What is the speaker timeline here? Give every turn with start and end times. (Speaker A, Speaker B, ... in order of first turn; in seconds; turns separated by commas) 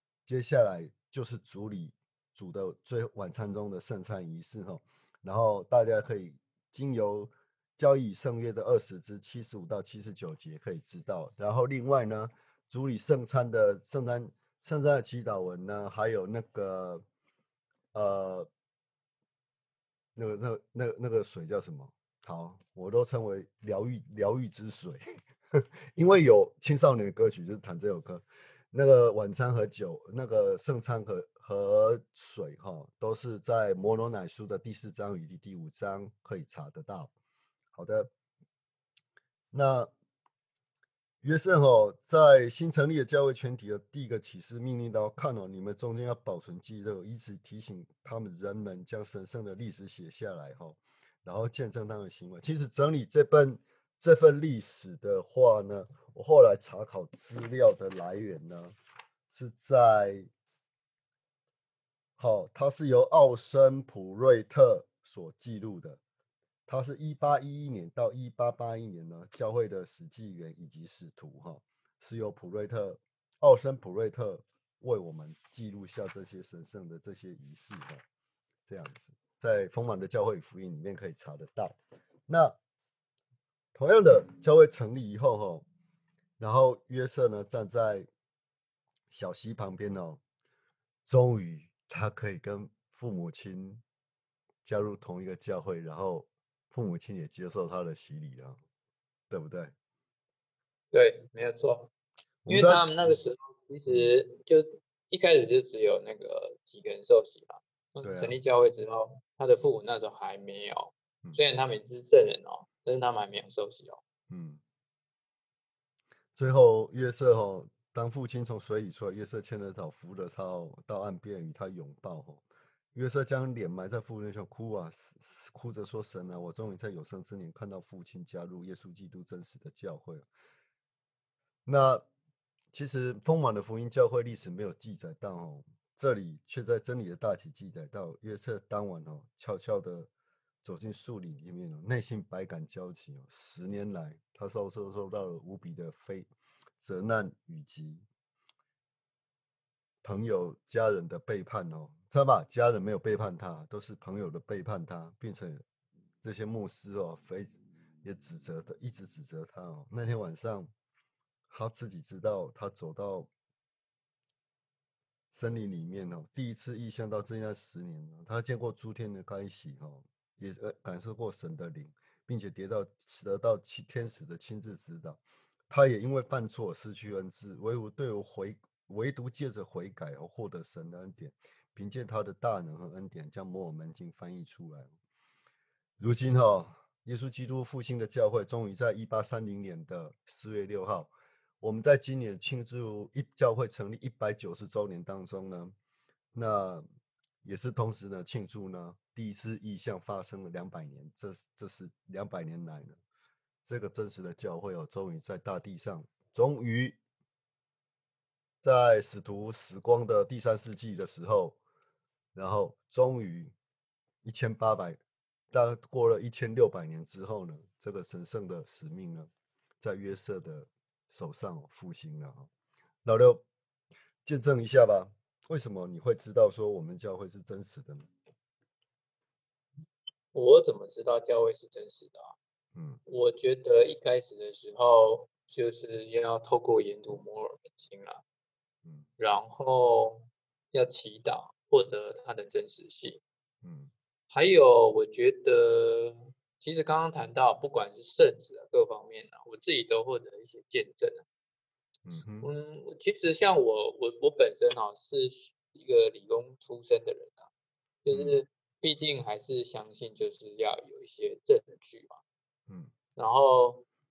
Speaker A: 0.2-17.0, Speaker A: 17.9-18.5, Speaker A: 20.1-25.0, Speaker A: 25.5-37.1, Speaker A: 37.7-38.1, Speaker A: 39.5-39.9, Speaker A: 41.2-58.7, Speaker A: 59.3-60.3, Speaker A: 62.2-66.0, Speaker A: 66.7-78.0, Speaker A: 78.7-81.8, Speaker A: 82.3-82.6, Speaker A: 83.7-85.6, Speaker A: 86.4-88.1, Speaker A: 89.1-90.2, Speaker A: 91.0-93.8, Speaker A: 94.6-98.6, Speaker A: 99.3-99.7, Speaker B: 100.9-101.9, Speaker A: 102.4-103.2, Speaker B: 102.5-114.0, Speaker A: 103.9-104.1, Speaker A: 108.0-108.3, Speaker A: 114.3-114.6, Speaker A: 116.3-130.2, Speaker A: 131.7-132.0, Speaker A: 132.7-140.1, Speaker A: 140.6-146.3, Speaker A: 146.8-148.0, Speaker A: 150.0-155.6, Speaker A: 156.2-157.5, Speaker A: 158.0-160.7, Speaker A: 161.5-163.3, Speaker A: 165.3-184.9, Speaker A: 186.0-195.7, Speaker A: 196.3-196.8, Speaker A: 197.4-203.0, Speaker A: 203.6-207.0, Speaker A: 208.6-211.6, Speaker A: 212.3-213.5, Speaker A: 214.2-215.0, Speaker A: 215.5-222.5, Speaker A: 223.0-223.4, Speaker A: 224.2-228.1, Speaker B: 230.3-232.3, Speaker A: 232.7-233.0, Speaker B: 233.1-238.2, Speaker B: 239.2-243.2, Speaker A: 243.6-243.9, Speaker B: 244.3-251.2, Speaker A: 252.0-252.5, Speaker B: 252.4-257.5, Speaker B: 258.0-262.2, Speaker A: 258.1-258.4, Speaker B: 263.1-263.8